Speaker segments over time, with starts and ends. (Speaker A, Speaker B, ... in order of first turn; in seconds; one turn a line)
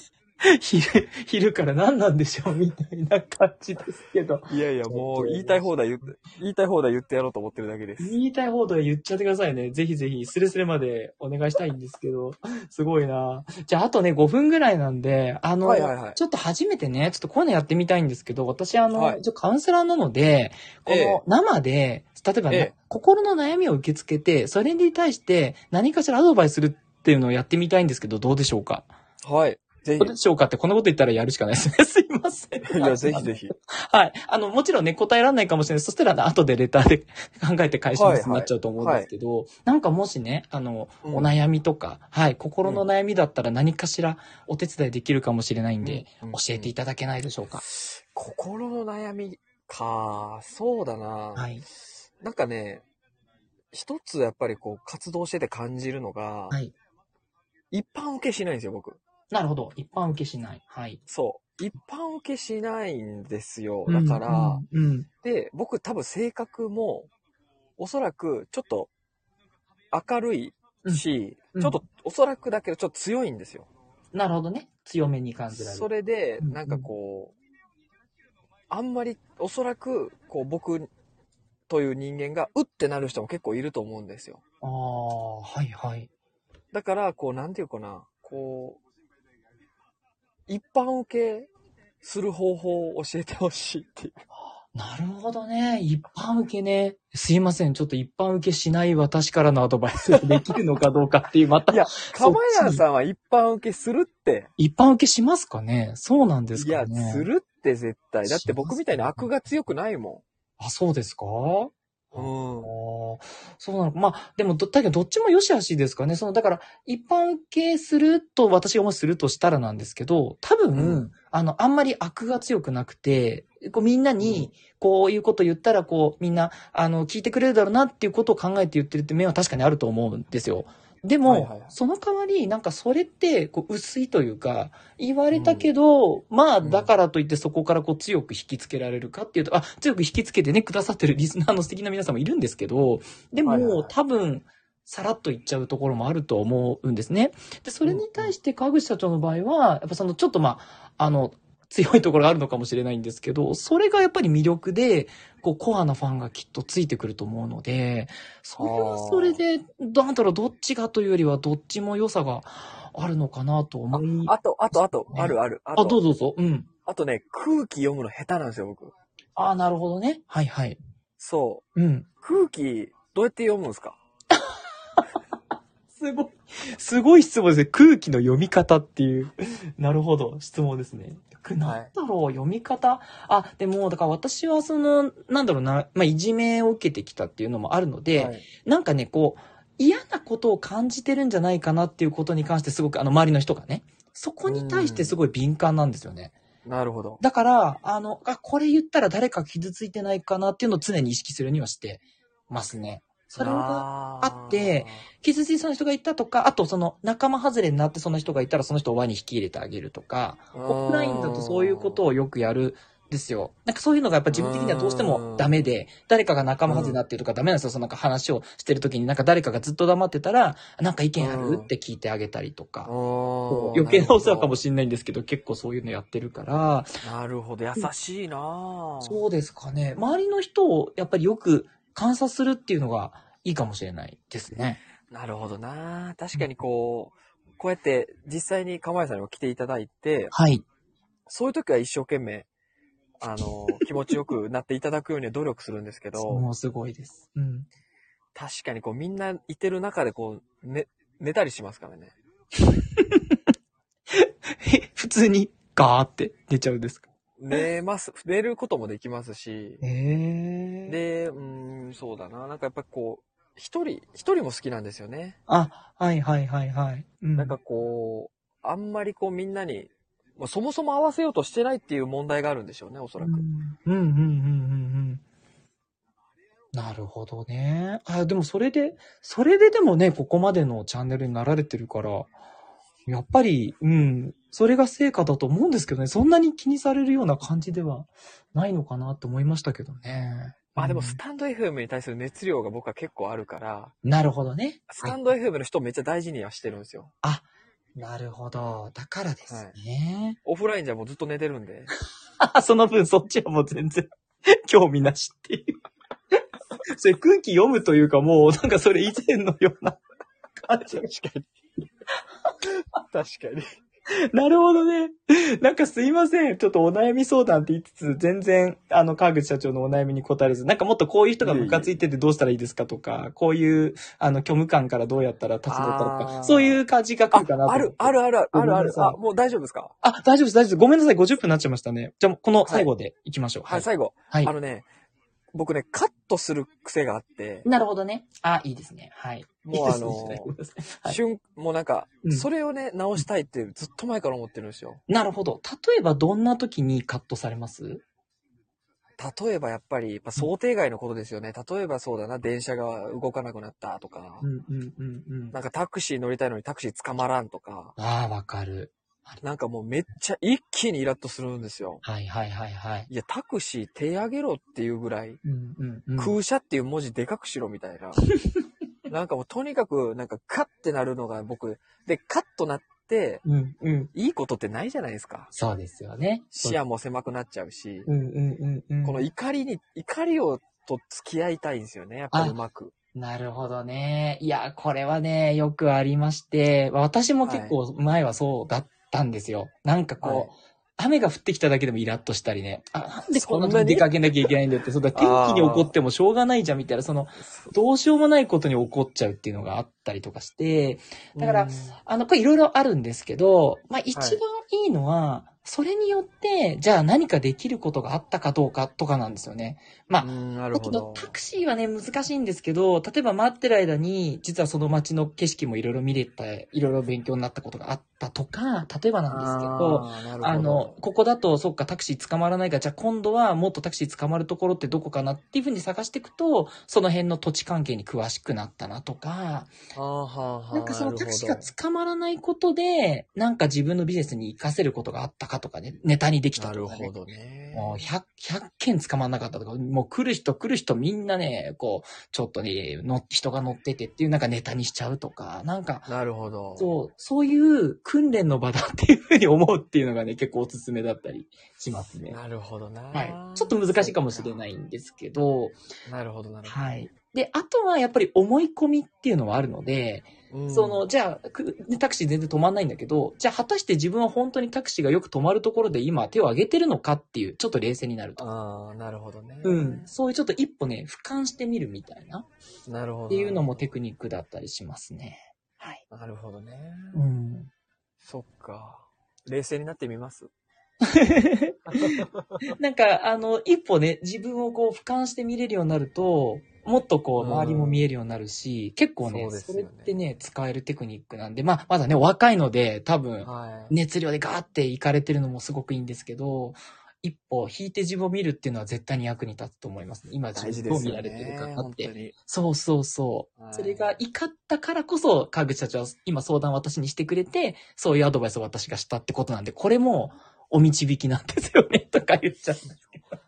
Speaker A: 0.4-6.1
Speaker B: 4.5-8.2
Speaker A: 8.0-28.9
Speaker B: 15.6-16.2
Speaker B: 18.9-19.2
Speaker B: 20.9-21.2
Speaker B: 29.2-30.1
Speaker A: 30.0-47.6
Speaker B: 32.6-33.5
Speaker B: 37.9-39.1
Speaker B: 41.0-41.3
Speaker B: 45.8-46.7
Speaker B: 47.6-51.5
Speaker A: 51.4-51.6
Speaker B: 52.2-52.8
Speaker B: 53.7-56.6
Speaker B: 57.7-59.0
Speaker A: 59.3-61.0
Speaker B: 61.1-64.6
Speaker A: 63.9-65.1
Speaker B: 65.2-67.1
Speaker B: 67.8-68.9
Speaker B: 69.9-73.7
Speaker A: 74.1-75.9
Speaker B: 75.5-77.3
Speaker A: 76.4-76.9
Speaker B: 78.7-80.9
Speaker B: 81.7-84.4
Speaker A: 84.6-86.1
Speaker B: 86.7-88.8
Speaker B: 90.5-91.5
Speaker B: 92.0-94.2
Speaker A: 94.7-102.8
Speaker B: 100.1-100.6
Speaker B: 101.7-104.5
Speaker A: 104.6-107.2
Speaker B: 106.5-110.2
Speaker A: 108.2-109.3
Speaker A: 110.6-166.7
Speaker B: 112.1-112.7
Speaker B: 120.7-121.0
Speaker B: 124.2-124.5
Speaker B: 131.2-131.7
Speaker B: 135.3-135.7
Speaker B: 136.6-136.9
Speaker B: 143.4-143.9
Speaker B: 147.8-148.3
Speaker B: 158.6-159.4
Speaker B: 163.9-166.0
Speaker B: 166.8-168.9
Speaker A: 169.3-170.8
Speaker B: 171.2-171.6
Speaker A: 171.7-172.1
Speaker B: 172.2-174.0
Speaker A: 174.3-175.0
Speaker A: 175.9-196.3
Speaker B: 181.6-181.9
Speaker B: 188.1-188.4
Speaker B: 194.4-195.2
Speaker B: 196.6-197.2
Speaker A: 197.2-222.9
Speaker B: 203.4-205.1
Speaker B: 210.5-212.0
Speaker B: 214.3-215.6
Speaker B: 216.7-217.0
Speaker B: 221.2-221.7
Speaker B: 222.8-224.6
Speaker A: 223.5-226.9
Speaker B: 227.0-229.2
Speaker A: 229.0-234.8
Speaker B: 235.1-240.3
Speaker A: 240.3-240.6
Speaker B: 241.3-242.5
Speaker B: 243.2-246.5
Speaker A: 246.1-247.7
Speaker B: 248.3-252.2
Speaker A: 252.7-253.4
Speaker A: 254.1-257.6
Speaker B: 257.4-259.8
Speaker A: 259.8-261.0
Speaker B: 260.9-265.4
Speaker A: 265.5-267.6
Speaker B: 267.4-273.4
Speaker A: 273.2-275.2
Speaker A: 276.7-282.3
Speaker A: 283.1-291.2
Speaker B: 290.8-293.9
Speaker A: 294.0-295.2
Speaker B: 294.9-297.1
Speaker A: 297.2-300.4
Speaker B: 299.5-299.8
Speaker B: 300.4-301.9
Speaker A: 302.4-305.8
Speaker A: 306.9-310.0
Speaker A: 310.6-311.1
Speaker B: 310.9-311.5
Speaker B: 312.7-313.8
Speaker A: 314.3-329.2
Speaker B: 321.4-321.9
Speaker B: 325.7-329.9
Speaker A: 330.0-334.5
Speaker B: 332.6-332.9
Speaker B: 333.6-334.9
Speaker B: 335.5-337.7
Speaker A: 337.6-341.2
Speaker B: 339.6-340.5
Speaker B: 341.1-345.0
Speaker A: 345.1-348.0
Speaker B: 349.2-354.5
Speaker A: 354.4-355.5
Speaker B: 355.5-357.9
Speaker A: 358.0-359.4
Speaker B: 359.4-362.0
Speaker A: 362.0-363.1
Speaker B: 363.1-365.4
Speaker A: 365.4-366.3
Speaker B: 366.2-368.3
Speaker B: 369.1-373.4
Speaker A: 373.4-374.1
Speaker B: 374.1-375.5
Speaker A: 375.5-376.8
Speaker B: 376.5-378.1
Speaker A: 378.1-379.2
Speaker B: 379.0-382.9
Speaker A: 382.3-382.6
Speaker A: 383.1-429.7
Speaker B: 387.4-387.8
Speaker B: 390.2-390.5
Speaker B: 393.3-394.5
Speaker B: 395.1-395.9
Speaker B: 397.4-397.7
Speaker B: 401.3-402.0
Speaker B: 404.1-404.4
Speaker B: 410.2-411.3
Speaker B: 419.3-421.0
Speaker B: 429.9-431.7
Speaker A: 430.7-437.1
Speaker B: 436.6-438.0
Speaker A: 437.7-446.1
Speaker B: 446.1-446.9
Speaker A: 446.8-452.4
Speaker B: 452.3-454.6
Speaker A: 453.1-455.8
Speaker B: 456.1-457.0
Speaker A: 456.6-468.4
Speaker B: 460.5-461.0
Speaker B: 468.4-470.1
Speaker A: 469.6-472.5
Speaker B: 472.9-473.7
Speaker A: 473.3-476.0
Speaker B: 476.1-477.2
Speaker A: 477.1-477.7
Speaker B: 478.2-480.5
Speaker A: 481.0-513.1
Speaker B: 481.9-482.7
Speaker B: 487.4-488.1
Speaker B: 489.2-490.1
Speaker B: 493.4-493.9
Speaker B: 500.5-502.3
Speaker B: 503.6-504.1